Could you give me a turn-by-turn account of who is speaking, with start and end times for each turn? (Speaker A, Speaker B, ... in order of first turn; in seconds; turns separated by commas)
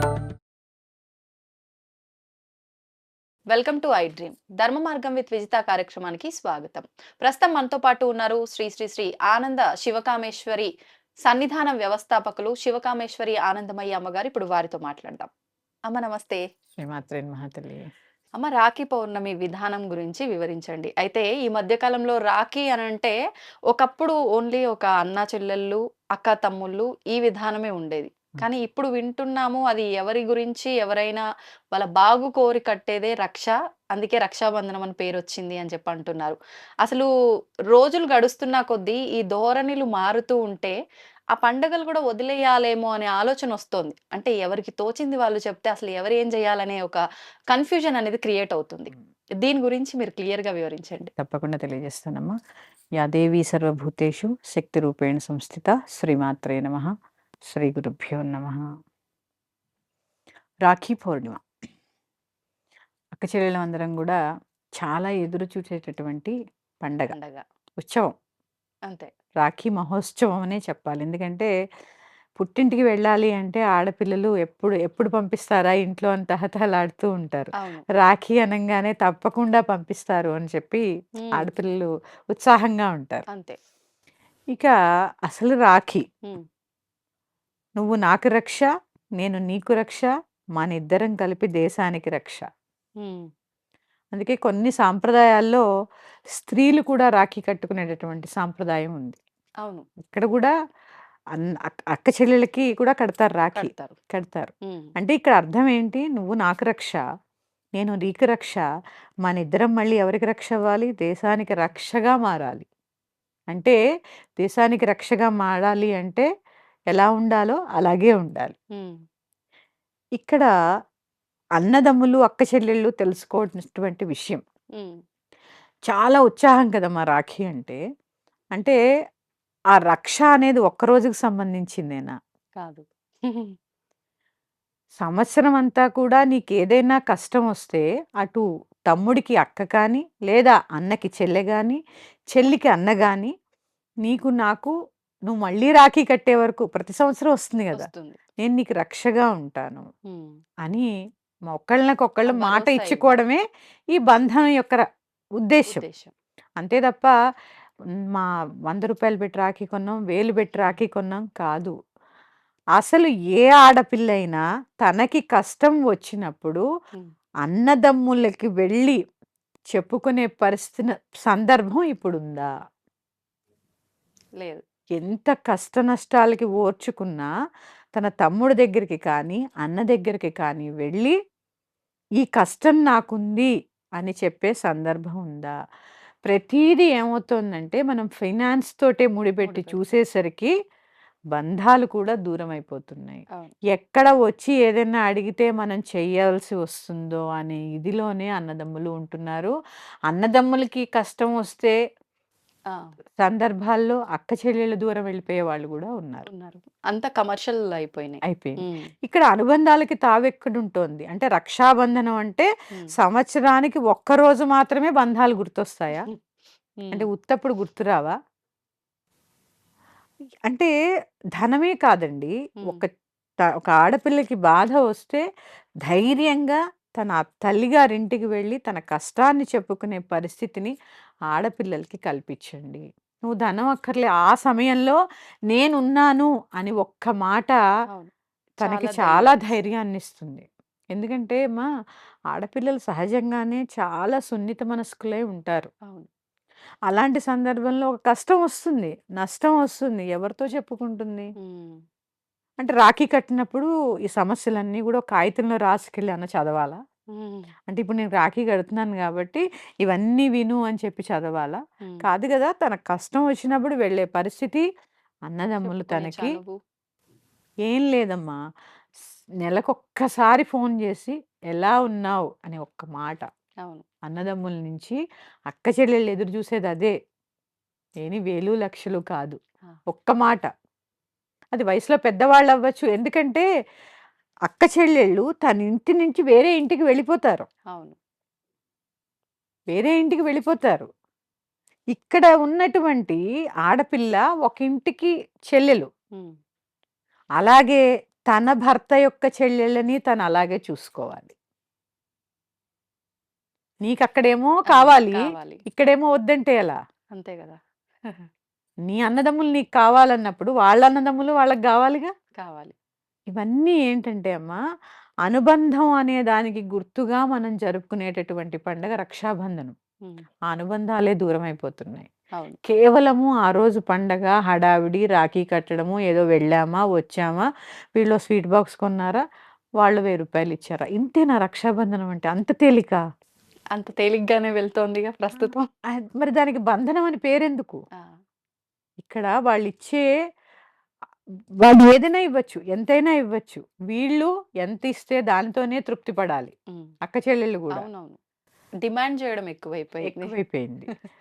Speaker A: 3.5-10.7, Speaker A: 11.3-15.3, Speaker A: 15.9-16.4, Speaker B: 16.8-17.9, Speaker A: 18.4-23.1, Speaker A: 23.7-37.1, Speaker A: 37.7-40.8, Speaker A: 41.3-51.1, Speaker B: 51.2-52.4, Speaker B: 53.0-56.9, Speaker B: 57.5-58.6, Speaker B: 60.6-61.4, Speaker B: 63.1-64.2, Speaker B: 64.8-67.2, Speaker A: 67.1-67.4, Speaker B: 67.8-68.1, Speaker B: 69.4-71.5, Speaker B: 72.4-83.2, Speaker A: 77.6-77.8, Speaker A: 81.2-81.5, Speaker A: 83.3-83.6, Speaker B: 85.3-86.0, Speaker B: 87.8-88.7, Speaker B: 89.2-92.4, Speaker A: 93.0-93.3, Speaker B: 94.1-95.6, Speaker B: 96.3-99.2, Speaker B: 100.0-100.5, Speaker B: 101.4-107.0, Speaker A: 103.5-104.0, Speaker B: 107.8-108.6, Speaker B: 109.3-112.7, Speaker B: 114.4-116.2, Speaker B: 116.9-118.5, Speaker B: 120.2-120.5, Speaker B: 121.6-124.4, Speaker B: 125.9-127.8, Speaker B: 129.8-132.1, Speaker A: 132.6-133.5, Speaker B: 135.0-141.8, Speaker B: 142.3-143.3, Speaker B: 144.0-144.7, Speaker B: 145.3-147.9, Speaker A: 147.7-148.2, Speaker B: 148.4-149.9, Speaker B: 151.5-153.4, Speaker A: 152.2-153.2, Speaker B: 153.9-154.8, Speaker B: 155.4-155.8, Speaker A: 155.7-156.1, Speaker B: 156.6-157.1, Speaker B: 158.1-161.7, Speaker A: 160.5-160.8, Speaker B: 162.8-166.6, Speaker B: 167.4-169.0, Speaker B: 169.7-172.5, Speaker B: 175.0-177.3, Speaker B: 178.0-181.1, Speaker B: 182.2-185.5, Speaker B: 186.3-190.5, Speaker A: 189.4-189.8, Speaker B: 191.3-193.2, Speaker B: 193.7-199.5, Speaker B: 200.1-201.8, Speaker B: 203.2-206.3, Speaker A: 206.3-208.9, Speaker B: 208.3-216.1, Speaker A: 216.8-217.1, Speaker B: 216.9-218.1, Speaker B: 221.4-222.9, Speaker B: 223.7-225.2, Speaker B: 225.9-230.7, Speaker B: 231.3-235.0, Speaker B: 235.5-237.6, Speaker A: 237.9-239.4, Speaker B: 238.6-241.7, Speaker B: 242.3-245.7, Speaker B: 246.9-251.3, Speaker A: 251.4-251.8, Speaker B: 252.6-256.8, Speaker A: 257.1-257.5, Speaker B: 257.7-264.6, Speaker B: 265.3-266.4, Speaker A: 265.6-266.6, Speaker B: 267.7-268.4, Speaker B: 269.4-273.2, Speaker B: 274.1-275.0, Speaker B: 275.5-276.9, Speaker B: 278.0-279.4, Speaker B: 279.9-280.5, Speaker B: 281.5-283.4, Speaker B: 284.5-287.5, Speaker B: 289.7-290.9, Speaker B: 291.9-295.9, Speaker B: 297.4-297.8, Speaker B: 298.3-301.3, Speaker B: 303.8-306.8, Speaker A: 304.7-305.6, Speaker A: 307.1-308.3, Speaker B: 308.9-312.1, Speaker A: 312.4-312.7, Speaker B: 313.3-314.6, Speaker B: 315.3-319.8, Speaker B: 320.5-322.1, Speaker B: 322.6-327.4, Speaker B: 328.0-329.2, Speaker B: 329.8-333.0, Speaker A: 333.7-335.7, Speaker B: 335.4-337.8, Speaker B: 339.0-340.1, Speaker B: 341.6-346.5, Speaker B: 347.0-347.9, Speaker A: 347.8-348.2, Speaker A: 348.8-350.3, Speaker B: 350.0-350.9